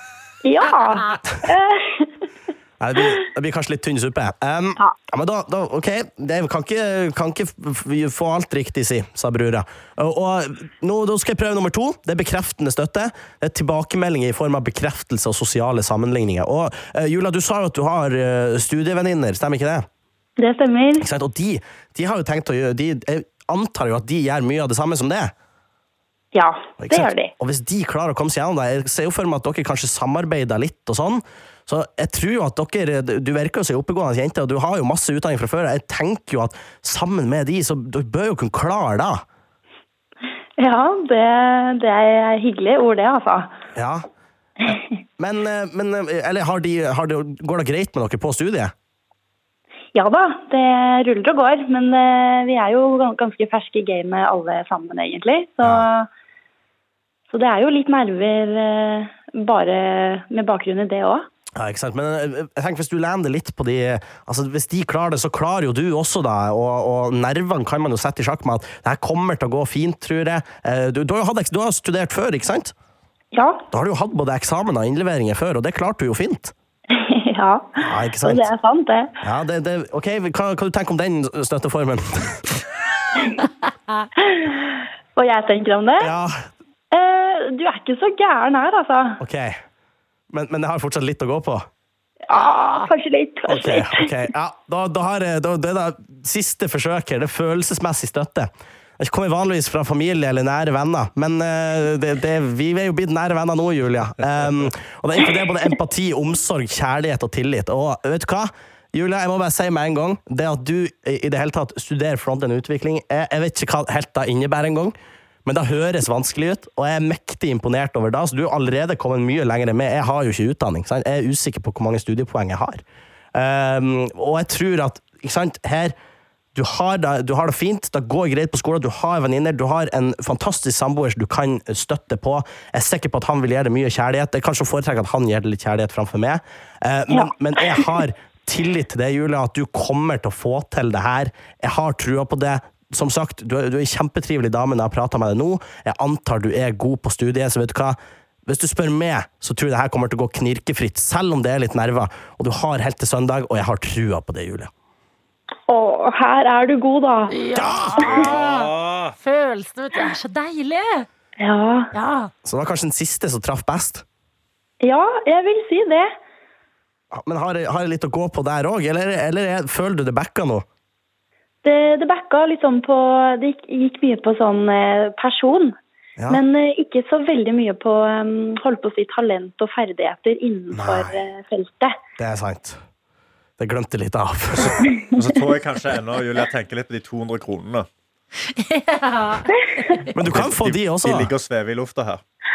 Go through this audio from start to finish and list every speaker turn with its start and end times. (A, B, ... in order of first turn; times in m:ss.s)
0:00.4-0:02.1 A
0:02.8-0:19.9 B
0:20.4-0:21.0 A
0:21.0-0:25.3 B
0:26.3-0:27.3 A
0:26.8-0:39.2 B
0:40.6-0:43.6 A
0:43.8-0:44.1 B
0:45.2-0:48.7 B
0:50.0-0:56.1 A
0:57.3-1:01.3 A
1:01.6-1:12.7 B
1:13.3-1:13.6 A
1:13.7-1:16.5 B
1:16.9-1:19.1 A
1:17.8-1:18.5 B
1:19.2-1:22.5 B
1:24.3-1:26.1 A
1:26.0-1:26.5 B
1:26.9-1:29.2 A
1:29.2-1:29.6 B
1:30.3-1:31.7 B
1:32.3-1:34.1 A
1:32.3-1:32.9 C
1:33.5-2:02.8 B
2:03.3-2:06.0 B
2:06.6-2:34.7 B
2:17.1-2:18.0 A
2:35.7-2:37.4 A
2:37.3-2:41.1 C
2:37.5-2:38.2 B
2:38.2-2:39.2 D
2:41.4-2:41.9 A
2:41.9-2:42.3 C
2:42.4-2:44.0 B
2:44.8-2:46.1 A
2:47.1-2:50.6 B
2:51.6-2:55.8 A
2:56.2-2:56.4 B
2:56.3-3:02.0 A
3:00.7-3:01.2 B
3:02.2-3:02.8 B
3:03.6-3:04.9 B
3:04.8-3:05.2 A
3:05.1-3:07.9 D
3:08.5-3:10.1 C
3:10.2-3:11.3 B
3:10.2-3:12.2 D